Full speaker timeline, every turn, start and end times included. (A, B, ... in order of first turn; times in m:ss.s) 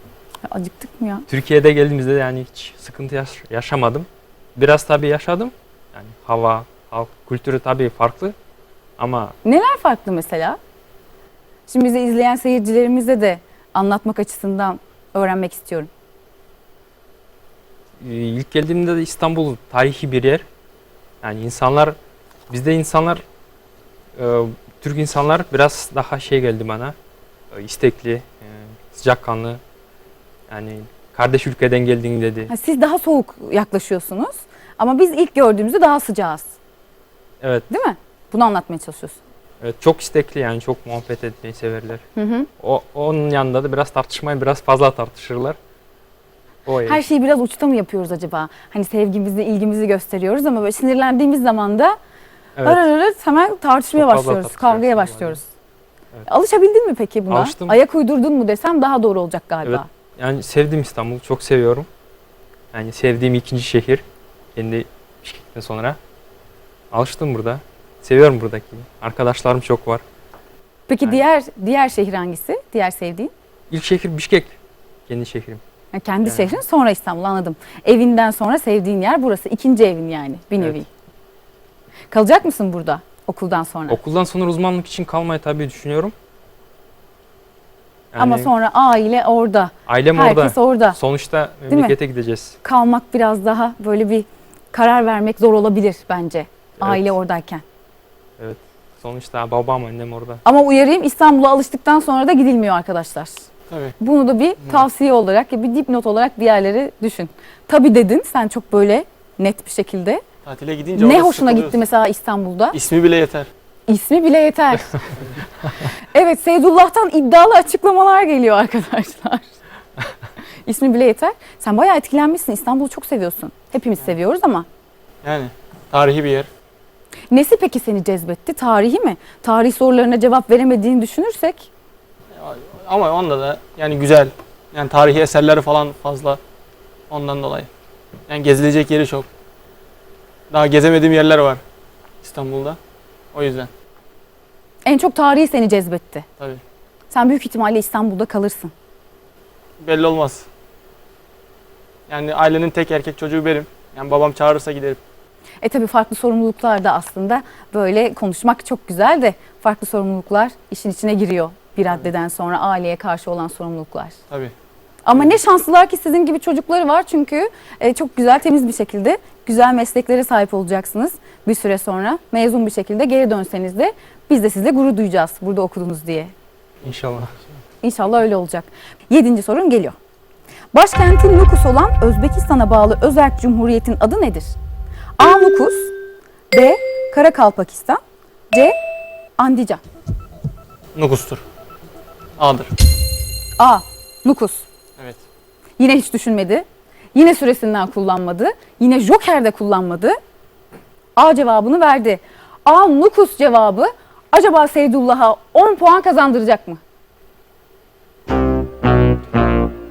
0:00.4-0:01.3 A
0:01.3-0:08.4 B
0:09.0-0:09.4 B
0:09.4-0:10.6 A
0:11.7-0:15.9 A
0:18.0-0:20.4 B
0:21.2-0:22.0 B
0:22.5-0:23.2 B
0:24.2-0:27.0 B
0:27.5-0:29.6 B
0:30.5-0:32.5 B
0:32.5-0:36.5 A
0:37.7-0:39.2 A
0:39.6-0:42.0 B
0:42.2-0:42.5 A
0:42.6-0:45.6 B
0:46.7-0:47.0 B
0:46.9-0:52.0 A
0:52.6-0:52.8 B
0:52.6-0:55.4 A
0:53.9-0:55.4 B
0:56.3-0:59.9 A
0:57.3-0:57.8 B
0:59.6-1:01.9 B
1:02.7-1:04.0 B
1:04.6-1:06.0 B
1:06.9-1:10.0 B
1:10.9-1:13.3 A
1:13.7-1:14.5 B
1:15.1-1:15.6 B
1:15.9-1:20.9 A
1:16.2-1:16.6 B
1:22.1-1:24.0 A
1:23.9-1:26.1 B
1:28.1-1:28.5 B
1:28.2-1:31.0 A
1:29.9-1:32.6 B
1:31.7-1:32.0 A
1:32.6-1:37.6 A
1:36.8-1:37.1 B
1:38.4-1:40.4 B
1:40.4-1:43.4 A
1:43.7-1:44.0 C
1:44.0-1:50.2 A
1:50.4-1:51.8 C
1:51.0-1:52.8 A
1:52.7-1:53.5 C
1:53.9-1:55.2 A
1:55.8-1:59.5 A
2:00.6-2:04.7 A
2:05.2-2:06.5 C
2:07.3-2:11.7 A
2:12.4-2:16.4 C
2:17.1-2:17.7 C
2:18.3-2:19.3 C
2:20.5-2:21.6 C
2:22.2-2:22.8 C
2:23.3-2:23.7 C
2:24.9-2:26.3 A
2:27.1-2:28.7 A
2:29.8-2:30.5 C
2:32.1-2:35.0 C
2:35.6-2:44.2 A
2:45.0-2:56.3 A
2:56.8-2:57.3 B
2:57.8-3:00.0 A
3:00.7-3:04.6 A
3:05.2-3:05.9 A
3:06.5-3:08.8 A
3:09.4-3:09.8 A
3:11.0-3:11.4 C
3:12.4-3:12.7 C
3:13.6-3:14.6 A
3:15.8-3:20.2 A
3:21.2-3:26.8 A